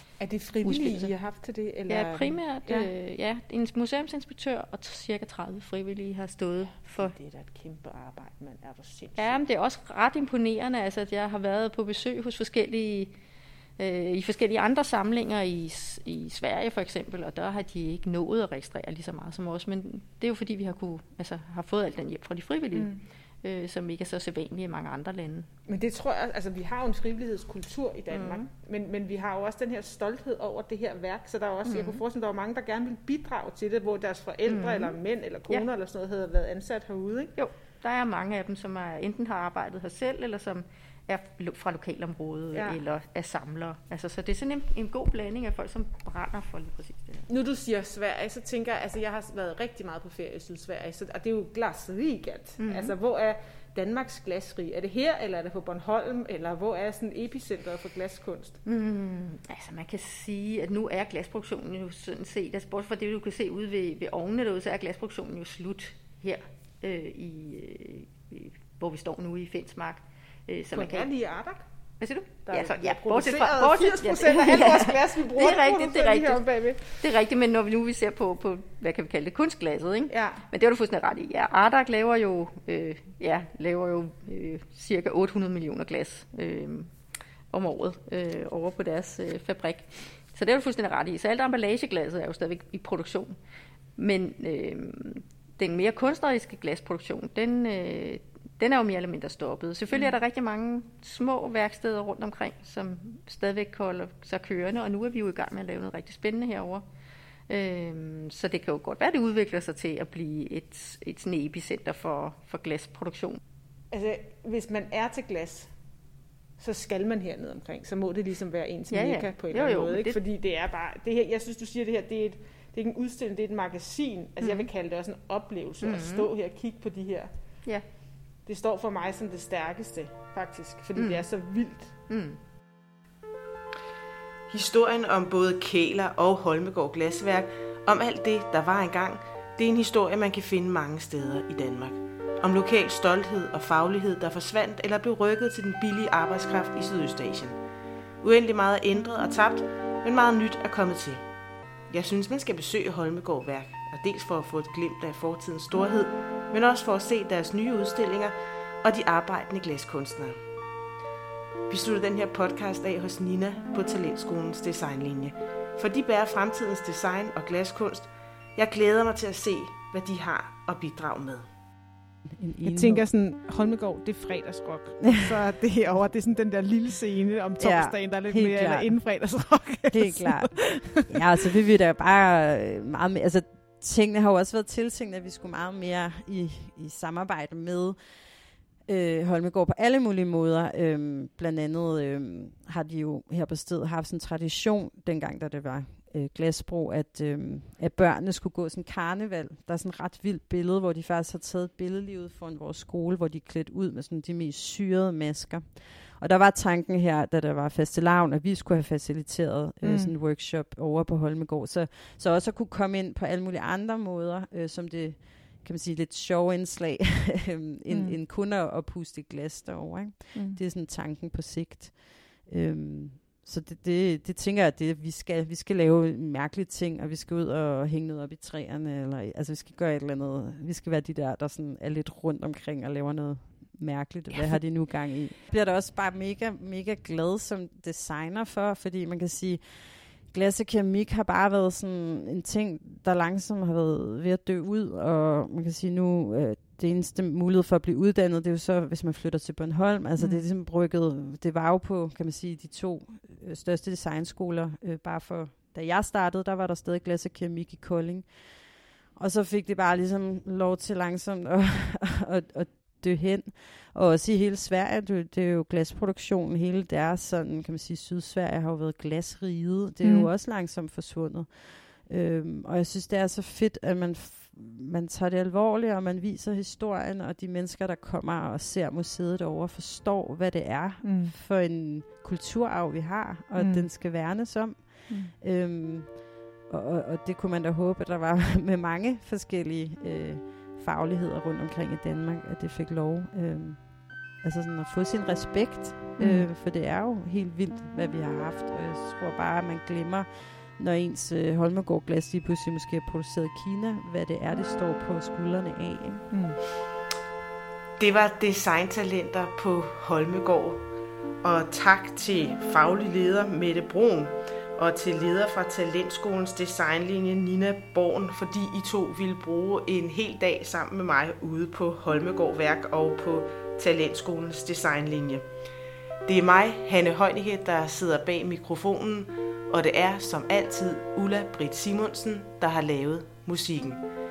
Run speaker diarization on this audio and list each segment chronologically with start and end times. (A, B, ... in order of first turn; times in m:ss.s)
0:00.2-0:02.9 A
0:00.6-0:01.1 B
0:01.9-0:07.1 B
0:06.9-0:09.4 A
0:09.2-0:13.1 B
0:13.8-0:25.5 B
0:22.7-0:23.0 A
0:25.7-0:37.3 A
0:28.1-0:28.5 B
0:31.6-0:32.0 B
0:34.4-0:35.0 B
0:37.4-0:47.3 B
0:42.5-0:42.8 A
0:47.3-0:58.6 A
0:52.6-0:52.9 B
0:58.6-1:11.1 B
1:10.7-1:11.6 A
1:12.0-1:26.9 B
1:12.5-1:17.0 A
1:20.1-1:20.4 A
1:27.5-1:33.4 B
1:34.0-1:46.8 B
1:47.5-1:53.4 B
1:53.9-1:55.7 A
1:56.6-2:07.3 A
1:58.9-2:00.2 B
2:04.4-2:04.7 B
2:05.8-2:06.3 B
2:08.4-2:11.9 A
2:11.0-2:11.3 B
2:12.1-2:12.4 B
2:14.5-2:27.6 C
2:28.2-2:31.2 C
2:31.9-2:40.4 C
2:41.7-2:51.5 C
2:52.3-2:53.0 D
2:52.6-3:01.3 A
2:55.1-2:55.4 D
2:57.6-2:59.0 D
2:59.9-3:08.0 D
3:08.9-5:06.3 D
3:29.8-3:30.1 A
3:37.9-3:38.2 A
3:40.3-3:40.6 A
4:10.2-4:10.5 A
4:30.0-4:30.3 A
4:41.0-4:41.3 A
4:43.6-4:43.9 A
4:45.1-4:45.3 A
4:56.2-4:56.5 A
5:06.3-5:06.6 A
5:08.0-5:10.8 C
5:11.4-5:25.4 C
5:26.3-5:34.0 C